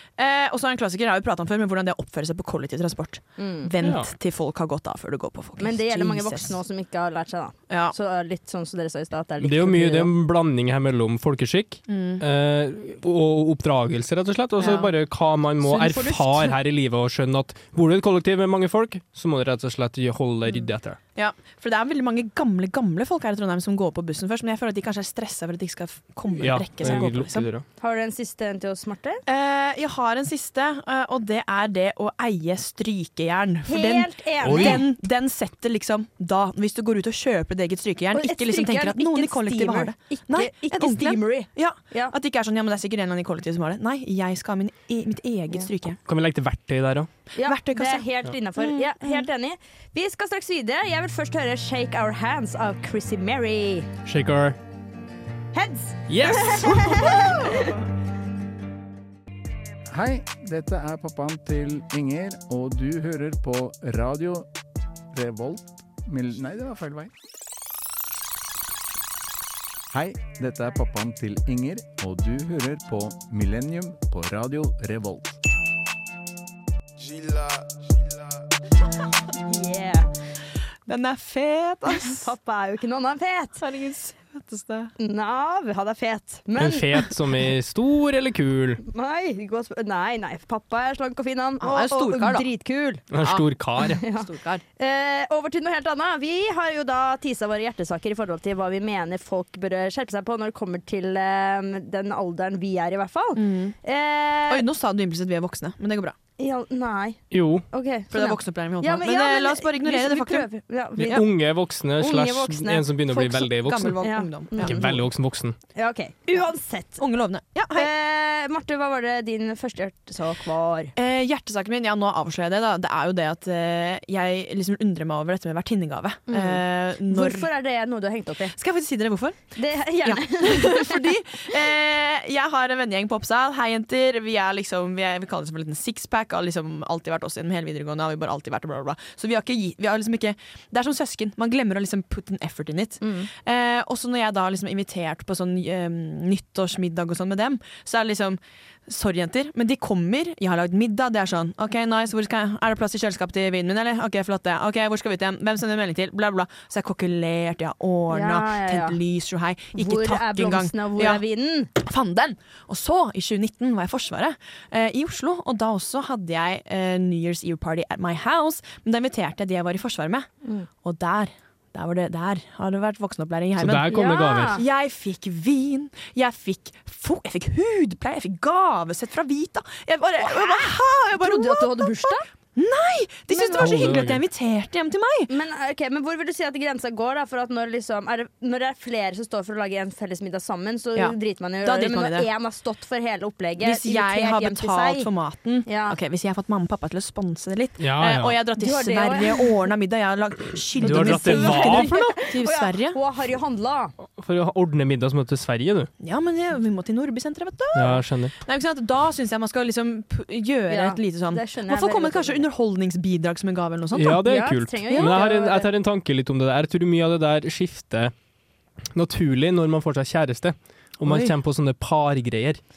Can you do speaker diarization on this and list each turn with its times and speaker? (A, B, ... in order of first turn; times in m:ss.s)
0:00.2-0:06.6 A
0:03.4-0:03.7 B
0:03.8-0:04.1 C
0:05.6-0:10.1 B
0:07.7-0:08.0 A
0:09.4-0:21.0 C
0:11.9-0:12.2 A
0:14.6-0:14.9 A
0:15.6-0:16.6 B
0:21.2-0:27.5 A
0:26.4-0:27.6 C
0:27.8-0:29.2 B
0:29.3-0:46.0 A
0:33.7-0:34.8 B
0:34.4-0:34.9 C
0:38.1-0:42.1 B
0:46.1-0:47.1 C
0:47.4-0:53.9 B
0:47.4-0:48.1 A
0:48.6-0:49.3 A
0:54.1-0:54.6 C
0:55.5-0:57.7 B
0:56.1-0:57.2 C
0:59.9-1:04.5 D
1:05.1-1:07.1 D
1:09.9-1:15.4 D
1:19.5-1:20.1 B
1:20.9-1:22.3 A
1:21.9-1:23.6 B
1:23.6-1:24.9 A
1:25.0-1:27.1 B
1:26.6-1:28.8 C
1:28.8-1:33.0 B
1:31.6-1:32.5 A
1:33.1-1:34.0 C
1:34.0-1:44.6 B
1:34.0-1:34.6 A
1:43.4-1:43.8 A
1:44.5-1:46.2 A
1:46.4-1:51.2 B
1:47.3-1:47.7 C
1:48.1-1:51.2 A
1:51.0-1:54.0 C
1:52.0-1:53.4 B
1:53.3-1:55.0 A
1:54.0-1:54.8 B
1:54.6-1:55.6 C
1:55.8-1:57.0 B
1:57.0-1:57.9 A
1:57.7-2:00.9 B
2:01.0-2:07.5 A
2:06.3-2:08.6 B
2:08.6-2:41.2 A
2:09.6-2:11.0 B
2:23.0-2:23.3 B
2:38.1-2:39.0 B
2:39.8-2:41.7 B
2:41.8-2:50.3 A
2:50.8-2:53.9 A
2:53.6-2:54.6 C
2:53.9-2:54.6 B
2:54.6-3:05.3 A
3:00.2-3:02.2 B
3:03.3-3:04.0 B
3:03.6-3:04.2 C
3:05.3-3:15.1 B
3:11.0-3:12.3 A
3:13.6-3:23.0 A
3:15.7-3:16.0 B
3:17.8-3:18.4 C
3:18.6-3:19.5 B
3:20.8-3:22.0 C
3:20.8-3:23.9 B
3:24.2-3:25.9 C
3:26.0-3:34.2 A
3:27.7-3:28.3 C
3:30.7-3:32.5 B
3:33.9-3:38.1 C
3:34.2-3:35.7 B
3:34.9-3:35.2 A
3:38.9-3:42.6 C
3:41.0-3:41.3 A